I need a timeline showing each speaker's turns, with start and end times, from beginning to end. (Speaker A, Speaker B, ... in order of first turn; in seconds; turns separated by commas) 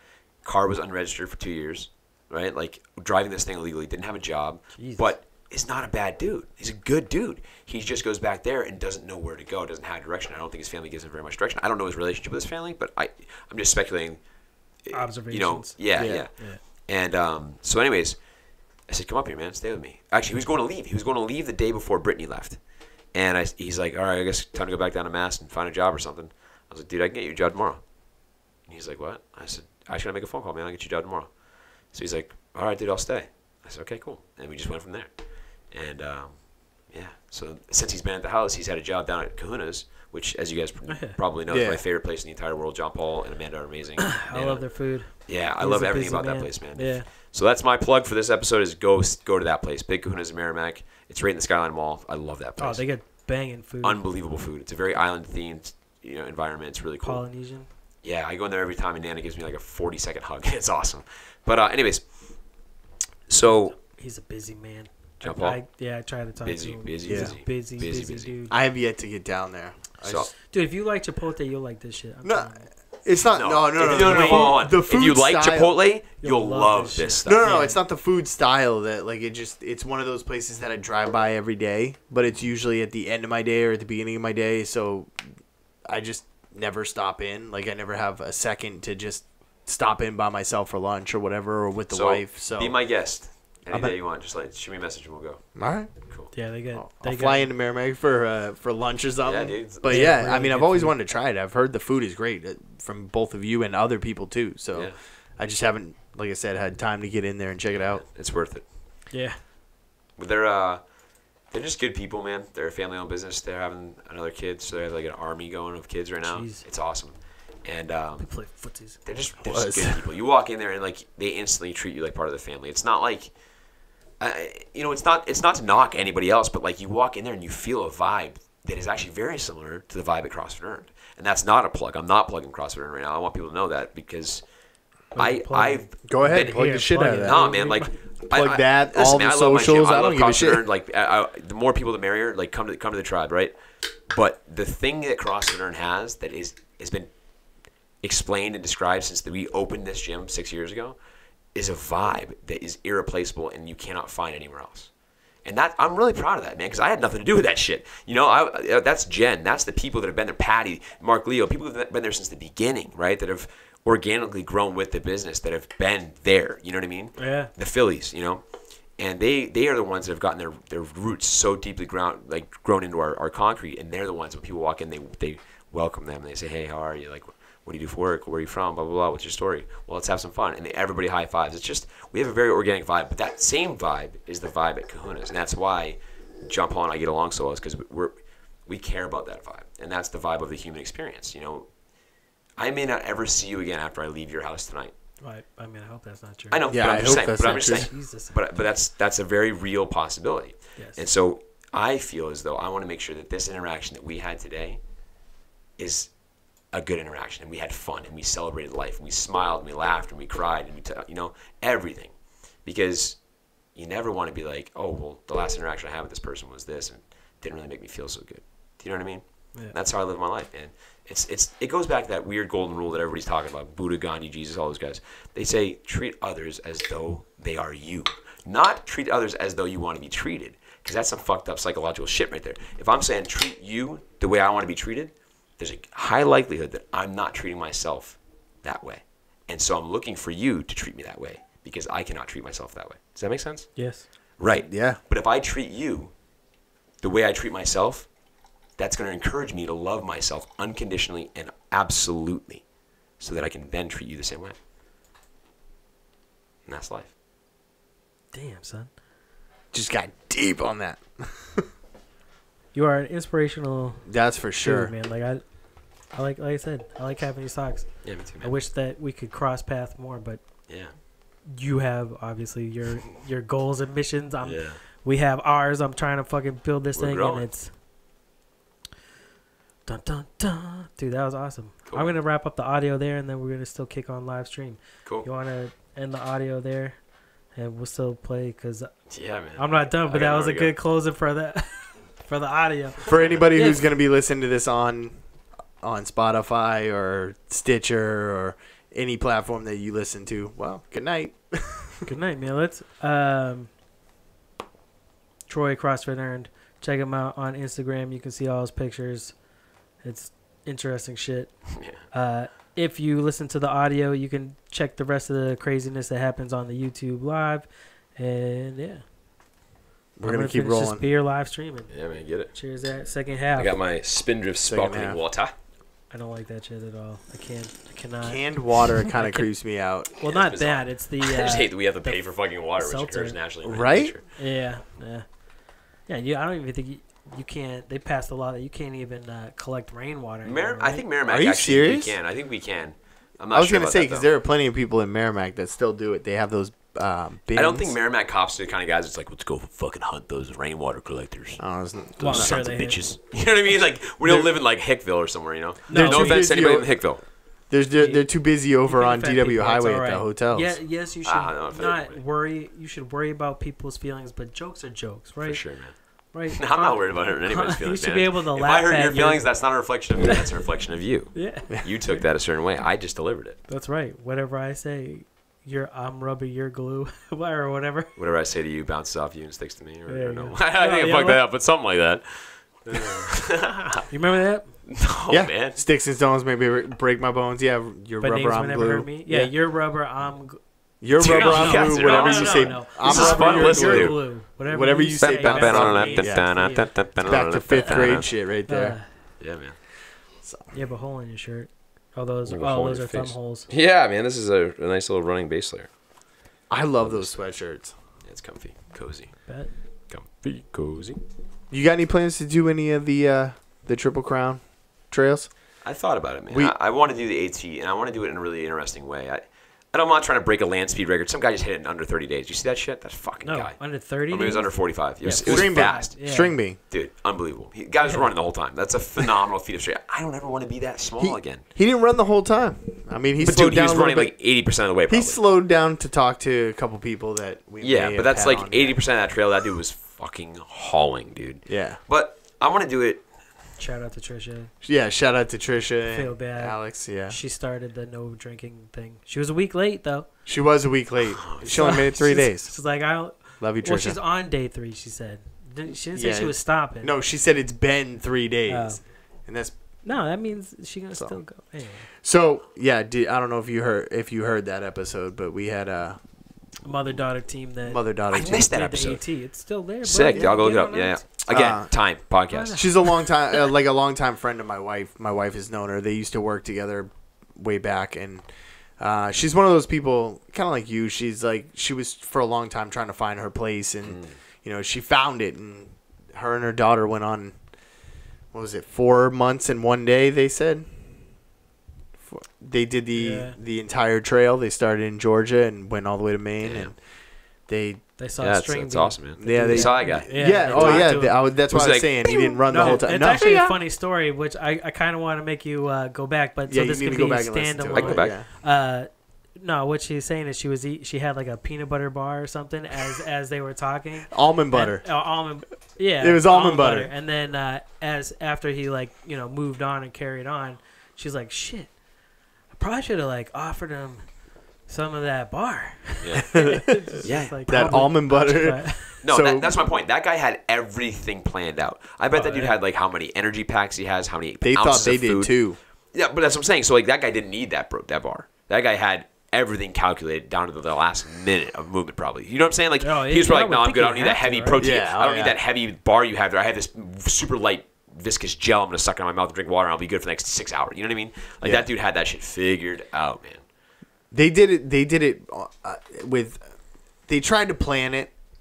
Speaker A: 0.4-14.2, Speaker B: 4.8-5.1, Speaker A: 14.8-18.2, Speaker B: 14.9-16.6, Speaker C: 15.9-16.2, Speaker A: 18.9-22.6, Speaker A: 23.1-27.8, Speaker A: 28.7-31.3, Speaker A: 31.9-35.1, Speaker A: 35.7-52.9, Speaker B: 40.9-41.2, Speaker C: 41.5-41.8, Speaker B: 44.1-47.0, Speaker B: 52.6-54.0, Speaker A: 53.8-57.2, Speaker B: 57.0-57.7, Speaker A: 58.0-62.2, Speaker A: 63.3-63.8, Speaker B: 63.4-68.5, Speaker A: 65.2-65.6, Speaker A: 66.4-68.3, Speaker C: 67.0-67.3, Speaker C: 68.5-70.3, Speaker A: 70.0-70.3, Speaker B: 70.5-72.7, Speaker C: 72.2-72.5, Speaker C: 73.0-75.7, Speaker A: 73.3-77.6, Speaker B: 74.0-74.5, Speaker B: 76.2-77.8, Speaker C: 77.2-85.1, Speaker C: 85.8-92.8, Speaker A: 91.9-95.4, Speaker C: 95.5-95.9, Speaker B: 96.3-97.5, Speaker C: 96.7-108.0, Speaker A: 99.2-100.2, Speaker B: 99.8-100.9, Speaker A: 107.8-108.7, Speaker B: 109.1-109.4, Speaker A: 110.2-110.8, Speaker A: 111.5-118.3, Speaker B: 116.2-116.6, Speaker B: 118.2-119.0, Speaker A: 119.0-123.3, Speaker C: 119.4-120.0, Speaker A: 124.2-134.4, Speaker B: 135.1-137.9, Speaker A: 135.1-143.6, Speaker C: 136.0-137.4, Speaker C: 138.3-140.6, Speaker A: 144.1-147.1, Speaker A: 148.0-151.0, Speaker A: 151.5-154.9, Speaker A: 155.4-168.4, Speaker B: 167.2-167.5, Speaker A: 169.0-188.1, Speaker A: 188.7-191.7, Speaker A: 192.6-194.9, Speaker B: 195.2-198.6, Speaker A: 196.5-204.8, Speaker C: 196.7-197.9, Speaker B: 200.8-201.0, Speaker A: 205.8-206.1, Speaker A: 206.7-212.1, Speaker A: 212.6-213.2, Speaker A: 213.7-243.7, Speaker B: 243.8-244.1, Speaker A: 244.4-246.1, Speaker C: 244.7-245.0, Speaker A: 247.0-248.1, Speaker A: 248.8-252.6, Speaker A: 253.2-254.6, Speaker A: 256.6-257.1, Speaker B: 258.3-258.9, Speaker C: 259.7-261.6, Speaker B: 262.7-264.0, Speaker C: 264.1-264.9, Speaker B: 264.6-265.4, Speaker B: 266.1-270.4, Speaker A: 268.0-268.5, Speaker A: 270.7-270.9, Speaker B: 271.5-277.7, Speaker A: 274.4-274.8, Speaker A: 277.0-277.4, Speaker B: 279.9-287.0, Speaker A: 281.9-282.2, Speaker B: 287.5-288.9, Speaker A: 289.1-290.7, Speaker B: 289.6-293.8, Speaker C: 293.1-295.2, Speaker C: 295.8-302.1, Speaker B: 302.1-303.7, Speaker B: 305.5-309.3, Speaker B: 310.0-311.5, Speaker A: 311.7-312.0, Speaker B: 312.1-319.0, Speaker C: 320.2-321.0, Speaker B: 320.2-321.9, Speaker A: 321.9-322.5, Speaker B: 322.5-323.8, Speaker A: 323.6-325.5, Speaker C: 324.6-325.2, Speaker B: 326.1-328.5, Speaker C: 328.2-330.1, Speaker B: 329.1-329.4, Speaker B: 330.2-332.2, Speaker A: 330.2-334.2, Speaker B: 332.8-333.4, Speaker C: 333.6-334.1, Speaker B: 334.4-335.2, Speaker B: 336.1-341.0, Speaker A: 340.4-344.3, Speaker C: 341.3-342.2, Speaker C: 343.5-347.9, Speaker A: 347.5-351.6, Speaker C: 351.6-352.6, Speaker B: 352.2-353.0, Speaker A: 352.2-357.2, Speaker C: 354.2-354.5, Speaker B: 355.9-356.5, Speaker C: 355.9-357.0, Speaker C: 357.7-360.7, Speaker B: 358.0-358.2, Speaker B: 358.8-365.6, Speaker A: 361.2-362.2, Speaker A: 365.4-365.9, Speaker B: 366.3-369.5, Speaker A: 366.5-373.6, Speaker B: 371.3-372.2, Speaker B: 373.7-378.1, Speaker A: 378.1-384.0, Speaker B: 380.1-381.4, Speaker B: 384.1-384.7, Speaker A: 384.9-385.8, Speaker C: 385.3-389.5, Speaker B: 388.2-390.6, Speaker C: 391.0-396.7, Speaker A: 391.2-394.2, Speaker B: 391.2-397.1, Speaker A: 395.2-398.3, Speaker C: 397.2-399.0, Speaker B: 398.7-399.1, Speaker A: 399.4-399.8, Speaker C: 400.4-400.7, Speaker B: 400.7-403.7, Speaker A: 402.4-405.9, Speaker C: 406.7-407.9, Speaker A: 407.0-407.3, Speaker A: 408.2-409.5, Speaker A: 410.1-411.2, Speaker C: 411.7-415.5, Speaker A: 415.8-426.2, Speaker C: 416.5-416.7, Speaker B: 423.4-426.6, Speaker C: 425.4-426.8, Speaker A: 426.8-431.6, Speaker C: 431.2-434.3, Speaker A: 433.4-435.4, Speaker C: 435.1-439.0, Speaker A: 437.8-443.2, Speaker C: 441.7-442.0, Speaker B: 443.8-444.7, Speaker C: 444.8-447.4, Speaker B: 446.1-450.3, Speaker C: 450.4-452.7, Speaker A: 451.2-452.1, Speaker B: 451.7-457.1, Speaker C: 453.6-454.2, Speaker C: 456.1-459.8, Speaker B: 458.7-459.0, Speaker B: 460.0-462.1, Speaker C: 462.2-466.2, Speaker B: 466.8-471.2, Speaker C: 467.8-468.7, Speaker A: 468.3-469.2, Speaker A: 470.0-472.9, Speaker C: 471.5-471.9, Speaker B: 472.5-472.9, Speaker C: 472.7-478.5, Speaker C: 479.0-487.6, Speaker A: 484.0-484.3, Speaker C: 488.5-490.9, Speaker C: 492.2-497.0, Speaker B: 493.1-493.6, Speaker A: 496.6-496.9, Speaker C: 497.7-498.0, Speaker B: 498.2-501.6, Speaker A: 498.4-503.8, Speaker C: 499.4-503.4, Speaker B: 502.7-521.9, Speaker C: 506.7-508.4, Speaker A: 507.9-508.3, Speaker C: 514.3-515.1, Speaker C: 516.2-517.1, Speaker B: 522.7-524.2, Speaker B: 524.9-529.2, Speaker A: 526.2-528.0, Speaker C: 526.5-527.1, Speaker C: 527.7-529.7, Speaker A: 529.2-535.6, Speaker B: 532.3-532.8, Speaker C: 534.6-535.8, Speaker A: 536.1-553.6, Speaker B: 543.0-544.8, Speaker C: 544.8-545.6, Speaker C: 551.6-551.9, Speaker C: 554.3-556.7, Speaker C: 557.3-558.3